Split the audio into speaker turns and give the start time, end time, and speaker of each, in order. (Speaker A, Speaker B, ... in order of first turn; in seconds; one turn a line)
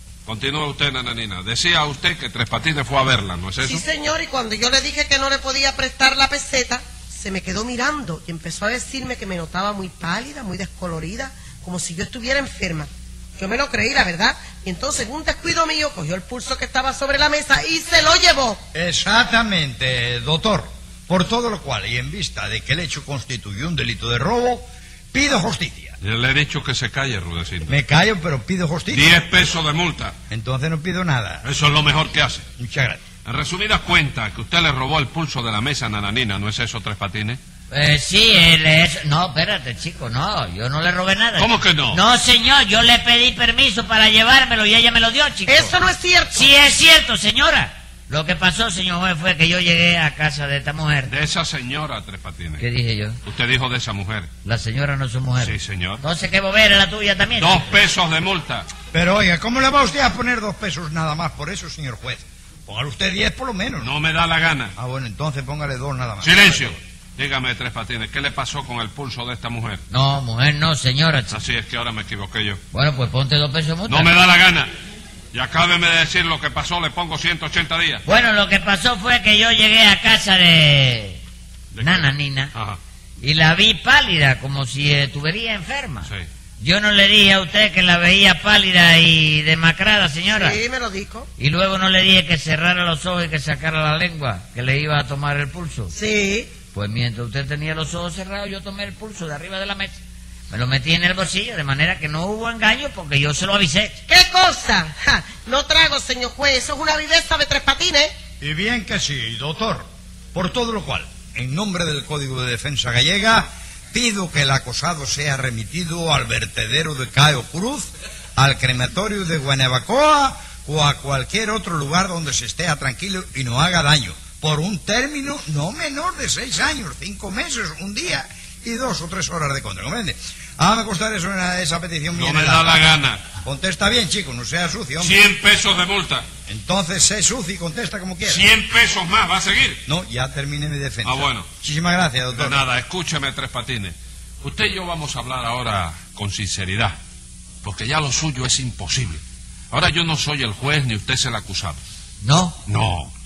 Speaker A: 0.3-3.8
Speaker B: 3.6-18.6
Speaker C: 18.7-26.0
Speaker A: 26.0-27.8
Speaker C: 27.7-29.2
Speaker A: 28.9-30.1
Speaker C: 30.3-31.4
Speaker A: 31.4-32.5
Speaker C: 32.6-33.0
Speaker A: 33.2-37.4
Speaker D: 37.7-45.8
Speaker A: 41.4-42.0
Speaker B: 45.5-46.5
Speaker D: 46.3-51.1
Speaker A: 51.1-52.6
Speaker D: 52.6-53.2
Speaker A: 53.2-54.3
Speaker D: 54.4-57.7
Speaker A: 55.4-56.0
Speaker A: 57.4-58.7
Speaker C: 58.9-63.9
Speaker A: 63.8-64.7
Speaker C: 64.8-66.8
Speaker A: 66.2-69.8
Speaker D: 69.9-71.4
Speaker A: 71.3-72.6
Speaker D: 72.7-74.1
Speaker A: 73.9-74.7
Speaker A: 75.3-78.0
Speaker D: 78.1-81.2
Speaker A: 81.7-82.8
Speaker D: 81.8-82.5
Speaker D: 83.2-90.6
Speaker B: 90.3-91.3
Speaker D: 91.4-95.9
Speaker B: 95.9-96.5
Speaker D: 96.7-100.0
Speaker D: 100.5-104.0
Speaker B: 104.1-108.1
Speaker C: 108.4-132.8
Speaker A: 132.1-133.2
Speaker C: 133.3-135.2
Speaker A: 135.0-136.3
Speaker C: 136.5-138.5
Speaker A: 138.2-139.8
Speaker C: 139.9-142.7
Speaker A: 141.0-141.5
Speaker A: 142.3-147.0
Speaker A: 147.6-151.8
Speaker D: 152.2-152.6
Speaker A: 152.7-153.1